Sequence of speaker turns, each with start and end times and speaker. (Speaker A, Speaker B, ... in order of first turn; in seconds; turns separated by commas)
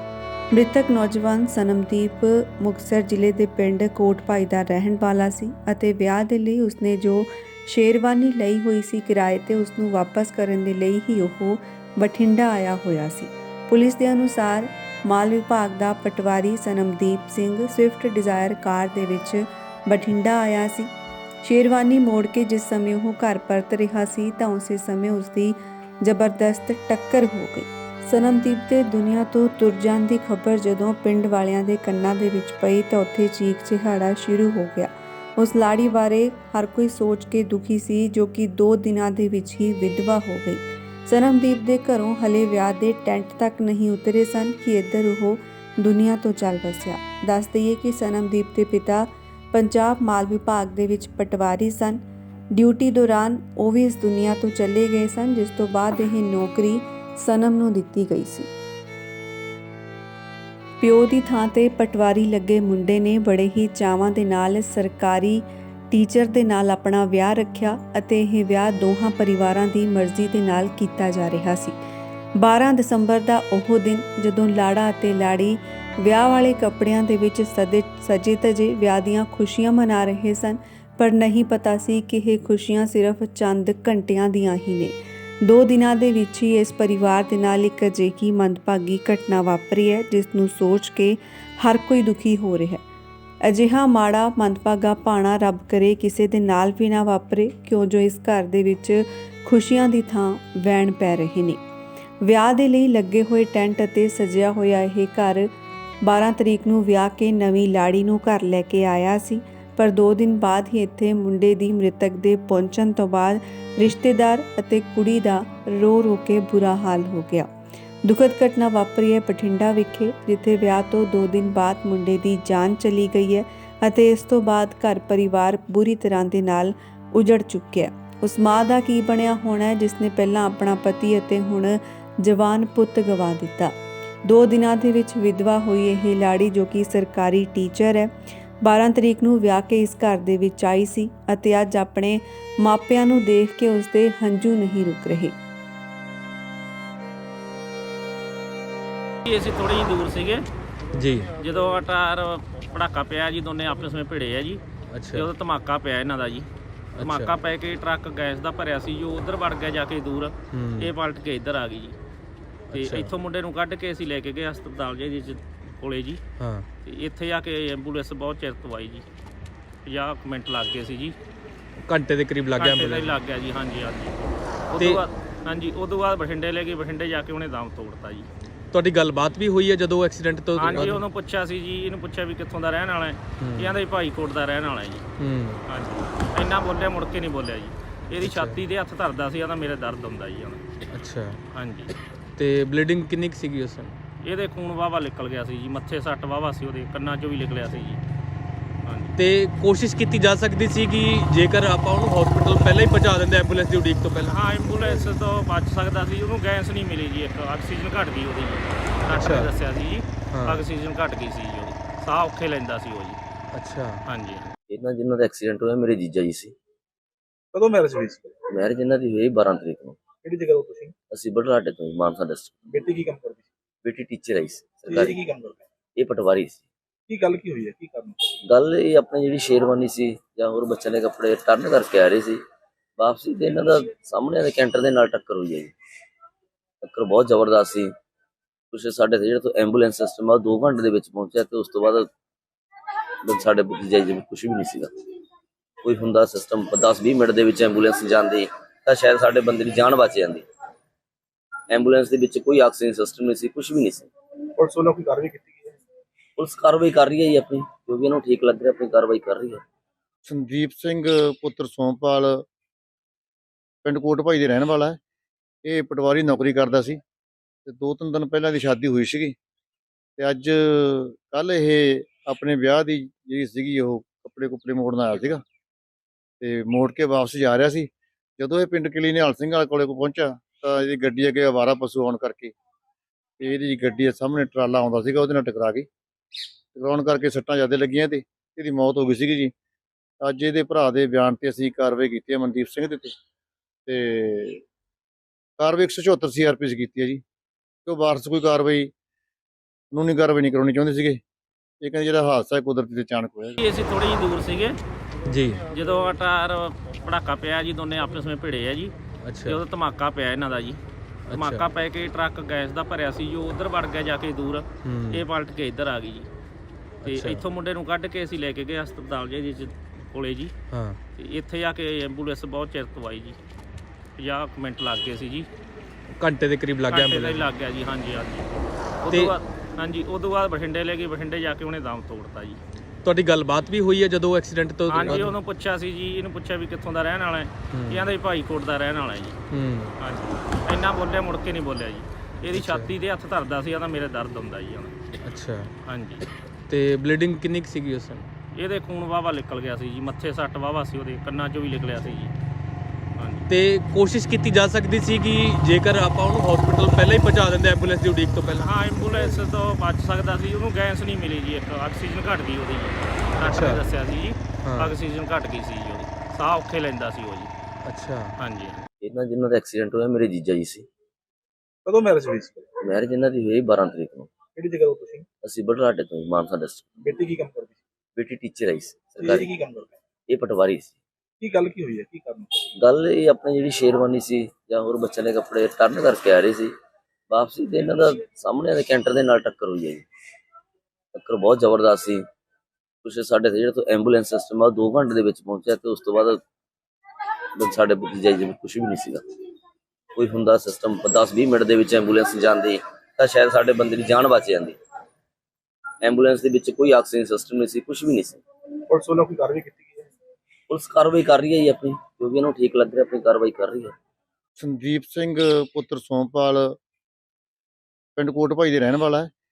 Speaker A: 0.5-20.9, Speaker A: 21.4-52.0, Speaker A: 52.5-58.5, Speaker A: 60.8-71.8, Speaker A: 72.4-92.8, Speaker A: 93.5-101.6, Speaker A: 102.2-105.5, Speaker A: 106.0-117.5, Speaker A: 118.1-133.7, Speaker A: 134.3-138.1, Speaker A: 138.6-145.3, Speaker B: 149.2-150.4, Speaker C: 151.0-151.3, Speaker B: 151.4-154.6, Speaker C: 154.9-155.3, Speaker B: 155.1-156.5, Speaker C: 157.0-157.3, Speaker B: 157.0-161.9, Speaker C: 160.5-160.9, Speaker C: 162.7-163.1, Speaker B: 162.7-166.2, Speaker C: 166.4-166.7, Speaker B: 166.8-169.1, Speaker B: 169.9-171.2, Speaker C: 171.9-173.2, Speaker B: 172.6-174.2, Speaker B: 174.7-178.3, Speaker C: 178.7-181.0, Speaker B: 180.6-185.1, Speaker C: 183.4-183.8, Speaker C: 185.2-185.6, Speaker B: 185.7-190.6, Speaker C: 188.2-188.6, Speaker C: 190.9-191.4, Speaker B: 191.5-191.9, Speaker C: 192.4-194.0, Speaker B: 194.2-198.0, Speaker B: 198.9-199.1, Speaker C: 199.2-204.4, Speaker B: 204.3-213.2, Speaker C: 209.1-209.5, Speaker C: 210.3-210.6, Speaker C: 213.5-214.0, Speaker B: 214.1-214.5, Speaker D: 214.7-216.6, Speaker E: 217.5-218.4, Speaker D: 218.5-220.0, Speaker E: 220.2-220.9, Speaker D: 221.1-222.6, Speaker E: 222.7-223.5, Speaker D: 223.8-225.2, Speaker E: 224.9-225.6, Speaker D: 226.0-226.7, Speaker E: 227.1-228.2, Speaker D: 228.4-232.4, Speaker D: 233.0-235.7, Speaker D: 236.8-237.9, Speaker D: 238.7-242.1, Speaker D: 243.2-244.9, Speaker D: 245.8-250.4, Speaker D: 251.7-254.1, Speaker E: 254.6-255.7, Speaker D: 256.4-259.6, Speaker F: 260.3-262.4, Speaker F: 263.9-265.0, Speaker F: 265.6-267.0, Speaker F: 267.7-269.4, Speaker F: 270.2-275.4, Speaker F: 276.4-282.5, Speaker F: 283.4-285.9, Speaker F: 286.8-289.5, Speaker F: 290.2-293.1, Speaker F: 293.9-294.6, Speaker F: 295.6-297.2, Speaker F: 297.9-298.9, Speaker F: 299.9-301.2, Speaker F: 301.8-303.6, Speaker B: 303.6-304.8, Speaker C: 305.3-305.6, Speaker B: 305.7-308.9, Speaker C: 309.2-309.6, Speaker B: 309.5-310.8, Speaker C: 311.3-311.6, Speaker B: 311.3-316.3, Speaker C: 314.9-315.2, Speaker C: 317.1-317.4, Speaker B: 317.1-320.5, Speaker C: 320.7-321.0, Speaker B: 321.2-323.4, Speaker B: 324.2-325.5, Speaker C: 326.2-327.5, Speaker B: 326.9-332.6, Speaker C: 329.1-329.4, Speaker C: 333.1-335.3, Speaker B: 334.9-339.4, Speaker C: 337.7-338.1, Speaker C: 339.5-339.9, Speaker B: 340.0-344.9, Speaker C: 342.5-342.9, Speaker C: 345.2-345.7, Speaker B: 345.9-346.2, Speaker C: 346.7-348.3, Speaker B: 348.5-352.3, Speaker B: 353.2-353.5, Speaker C: 353.5-358.7, Speaker B: 358.6-367.5, Speaker C: 363.4-363.8, Speaker C: 364.6-364.9, Speaker C: 367.9-368.4, Speaker B: 368.4-368.9, Speaker D: 369.0-370.9, Speaker E: 371.9-372.7, Speaker D: 372.8-374.4, Speaker E: 374.5-375.3, Speaker D: 375.4-376.9, Speaker E: 377.0-377.8, Speaker D: 378.2-379.5, Speaker E: 379.2-380.0, Speaker D: 380.3-381.0, Speaker E: 381.4-382.6, Speaker D: 382.8-386.7, Speaker D: 387.3-390.1, Speaker D: 391.1-392.2, Speaker D: 393.0-396.4, Speaker D: 397.6-399.2, Speaker D: 400.1-404.8, Speaker D: 406.0-408.4, Speaker E: 408.9-410.1, Speaker D: 410.7-413.9, Speaker F: 414.6-416.8, Speaker F: 418.2-419.3